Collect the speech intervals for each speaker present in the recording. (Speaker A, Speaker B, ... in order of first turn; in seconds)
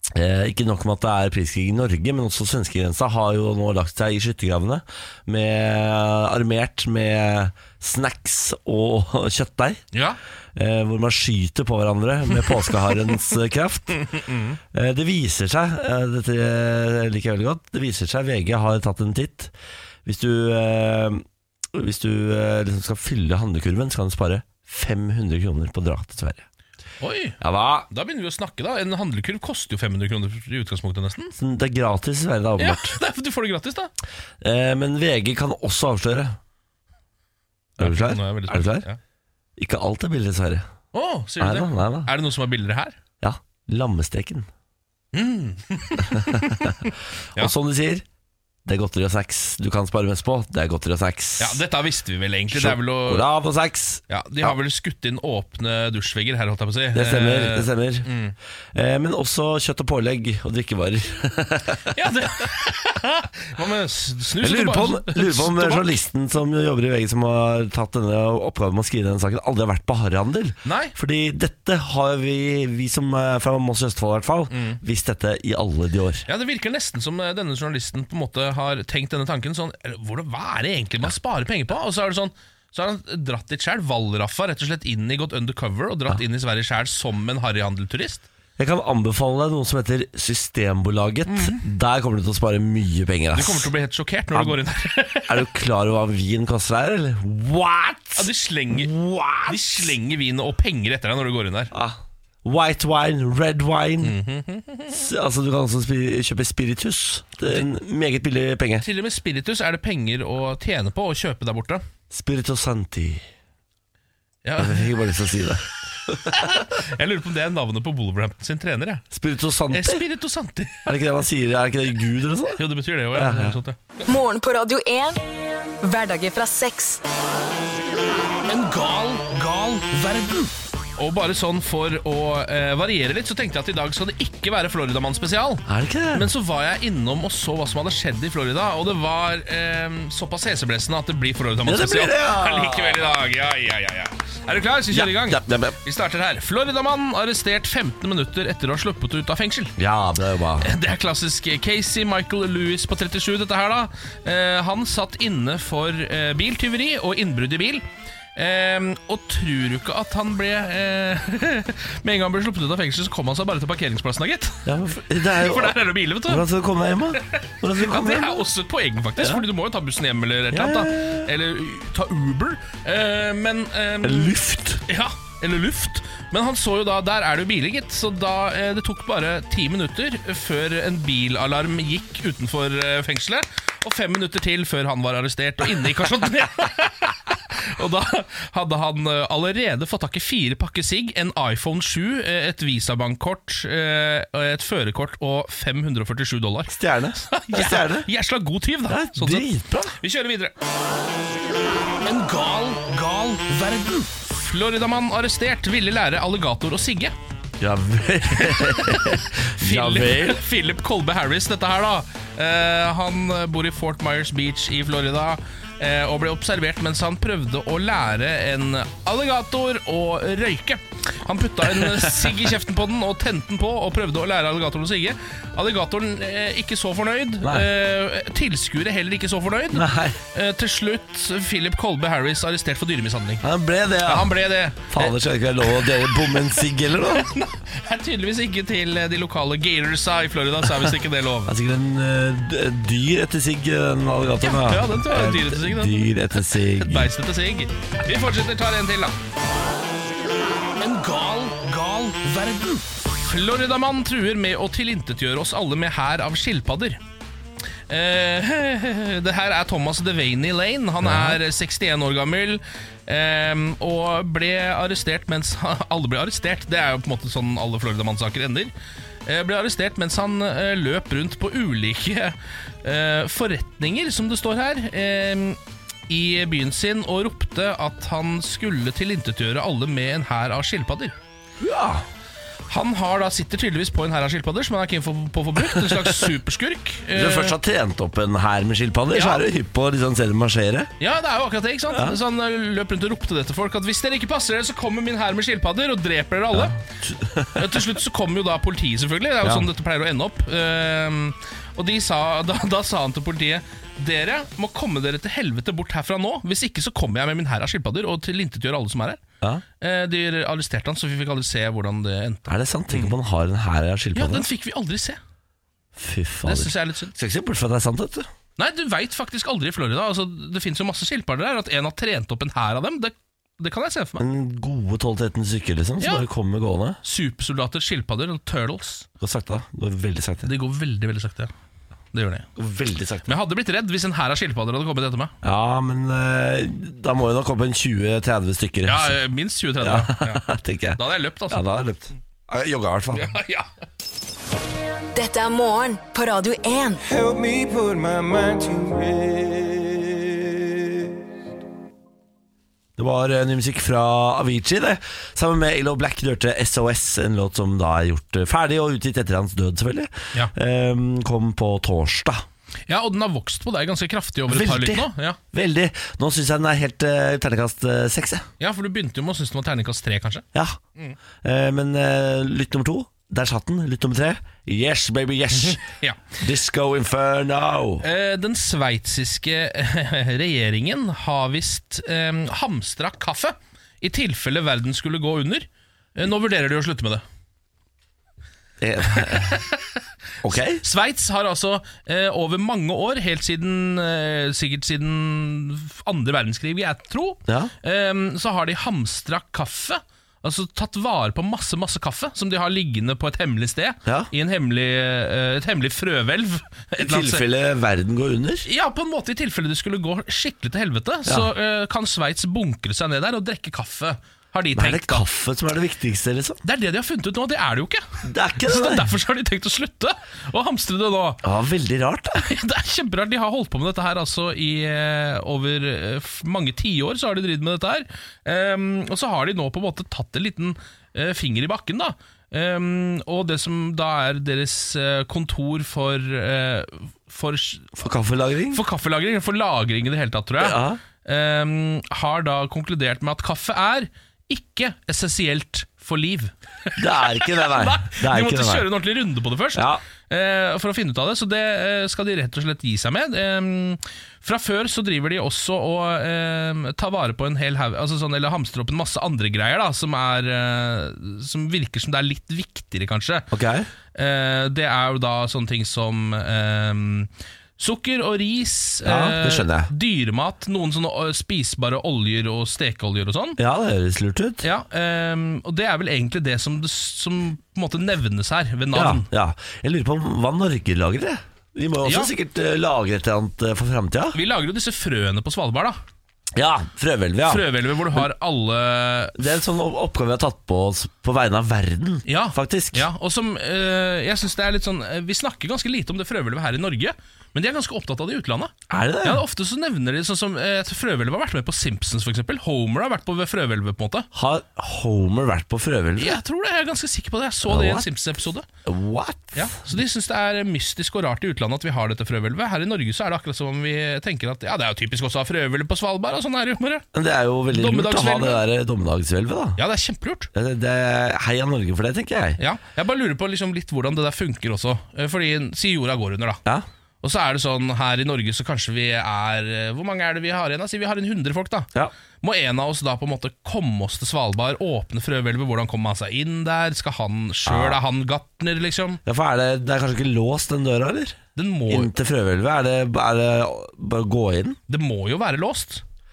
Speaker A: 0.1-9.8, 10.5-14.2, 14.7-19.5, 20.0-26.4, 27.4-27.9, 31.4-33.0, 34.4-36.4, 37.8-38.9, 39.6-40.6, 41.4-42.1, 43.2-44.5, 46.0-46.8, 47.4-48.0, 48.6-51.6, 52.5-54.5, 56.9-58.1, 58.7-61.9, 64.4-76.3, 88.6-93.7, 95.3-99.9, 101.7-104.2, 104.9-108.8, 112.1-113.2, 114.6-116.5, 119.1-120.0, 120.8-122.6, 123.1-123.6, 135.7-136.3, 141.6-143.1, 144.9-145.8, 149.8-150.7, 164.7-168.4, 169.2-169.4, 170.5-171.3, 174.0-174.8, 196.7-198.1, 198.9-200.0, 207.6-210.4, 229.7-230.2, 233.4-234.3, 234.9-237.3, 241.4-247.1, 261.0-261.4, 281.6-282.0, 285.7-286.1, 287.1-290.9, 296.5-297.8, 312.5-314.5, 315.9-318.3, 324.2-327.0, 329.2-330.5, 332.6-333.3, 335.4-339.1, 339.8-343.3, 353.0-362.4, 364.5-368.5, 371.4-375.8, 376.4-378.0, 388.8-389.6, 390.4-390.8, 397.5-397.7, 407.0-408.7, 414.7-416.6, 418.2-419.1, 421.4-422.4, 438.0-438.8, 440.6-441.0, 446.9-448.9, 449.7-450.0, 463.5-463.9, 469.0-469.9, 473.6-474.6, 478.9-484.4, 486.6-488.2, 489.4-493.1, 498.9-499.4, 504.3-506.4, 507.7-508.0, 508.9-509.8, 517.1-519.8, 520.5-522.6, 537.7-538.0, 539.2-541.4, 541.9-544.8
Speaker B: 9.9-10.2, 14.1-14.6, 27.0-27.4, 27.9-31.3, 32.6-33.9, 37.8-39.0, 40.9-43.0, 45.1-47.5, 51.4-53.3, 54.1-58.3, 61.9-66.0, 70.6-70.9, 74.5-74.8, 76.3-88.2, 91.3-91.6, 93.3-95.5, 98.2-98.9, 99.5-101.7, 104.0-105.0, 108.8-111.8, 114.4-114.9, 116.2-119.0, 119.7-120.8, 122.6-123.8, 128.4-149.7, 150.6-157.8, 158.3-164.6, 165.2-166.4, 167.2-174.3, 174.9-200.5, 202.0-207.1, 208.4-233.4, 234.0-241.5, 244.4-249.2, 250.8-257.0, 257.9-268.7, 269.2-281.1, 282.7-287.6, 289.1-289.4, 291.0-296.8, 297.5-309.2, 309.8-313.1, 314.1-315.2, 316.4-317.1, 318.6-324.2, 326.0-326.2, 327.0-329.1, 330.4-331.5, 332.1-332.5, 333.2-335.3, 338.9-340.4, 341.0-341.6, 343.1-343.7, 362.9-365.4, 368.6-371.2, 375.5-376.2, 378.0-387.2, 389.1-389.9, 390.5-407.4, 408.6-415.2, 416.6-418.0, 418.6-421.4, 422.4-438.0, 438.7-463.5, 464.1-473.6, 474.6-479.2, 482.0-482.3, 484.3-486.0, 487.5-489.4, 492.2-504.3, 506.2-508.6, 509.5-517.1, 517.7-518.6, 519.8-520.5, 522.6-526.6, 527.2-531.9, 532.4-539.2, 541.5-542.1, 544.9-546.0
Speaker C: 124.0-125.2, 125.8-127.0, 345.1-347.0
Speaker D: 347.1-351.1